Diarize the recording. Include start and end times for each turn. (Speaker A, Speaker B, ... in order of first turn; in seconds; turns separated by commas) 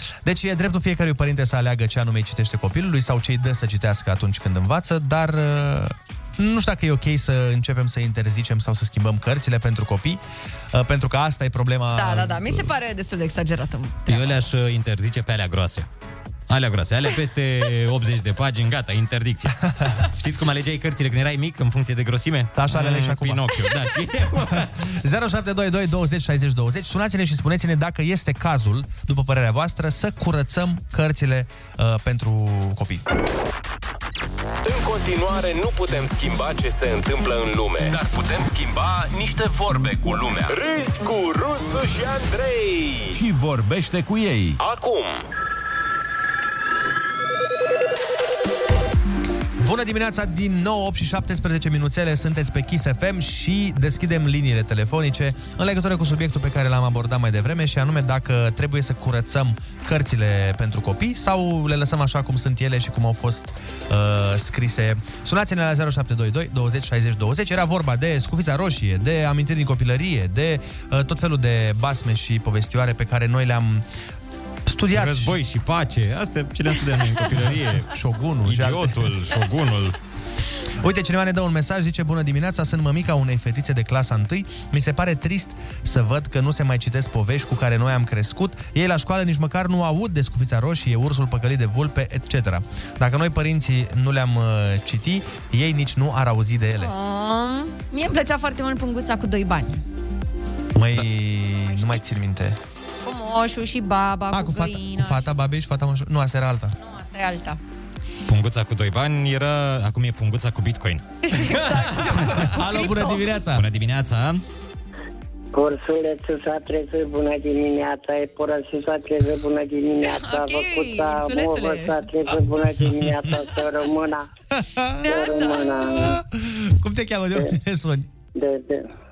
Speaker A: 0.2-10.2, Speaker A: 10.7-12.7, Speaker B: 11.9-14.3, Speaker C: 14.1-15.9, Speaker C: 16.5-24.9, Speaker A: 22.5-23.4, Speaker A: 24.8-33.0, Speaker D: 34.6-45.2, Speaker A: 49.6-73.8, Speaker A: 74.6-75.4, Speaker C: 74.9-77.9, Speaker A: 77.9-79.1, Speaker C: 78.4-80.0, Speaker A: 80.8-96.9, Speaker B: 96.8-99.8, Speaker A: 100.7-102.6, Speaker B: 101.8-102.2, Speaker B: 103.0-105.3, Speaker A: 104.3-106.8, Speaker B: 106.8-107.6, Speaker C: 108.3-111.0, Speaker B: 111.2-113.3, Speaker A: 112.2-113.6, Speaker C: 113.5-114.4, Speaker E: 115.5-124.3, Speaker B: 120.0-122.0, Speaker A: 124.5-125.1, Speaker B: 125.0-125.8, Speaker E: 125.0-126.1, Speaker A: 126.0-128.1, Speaker E: 128.3-128.9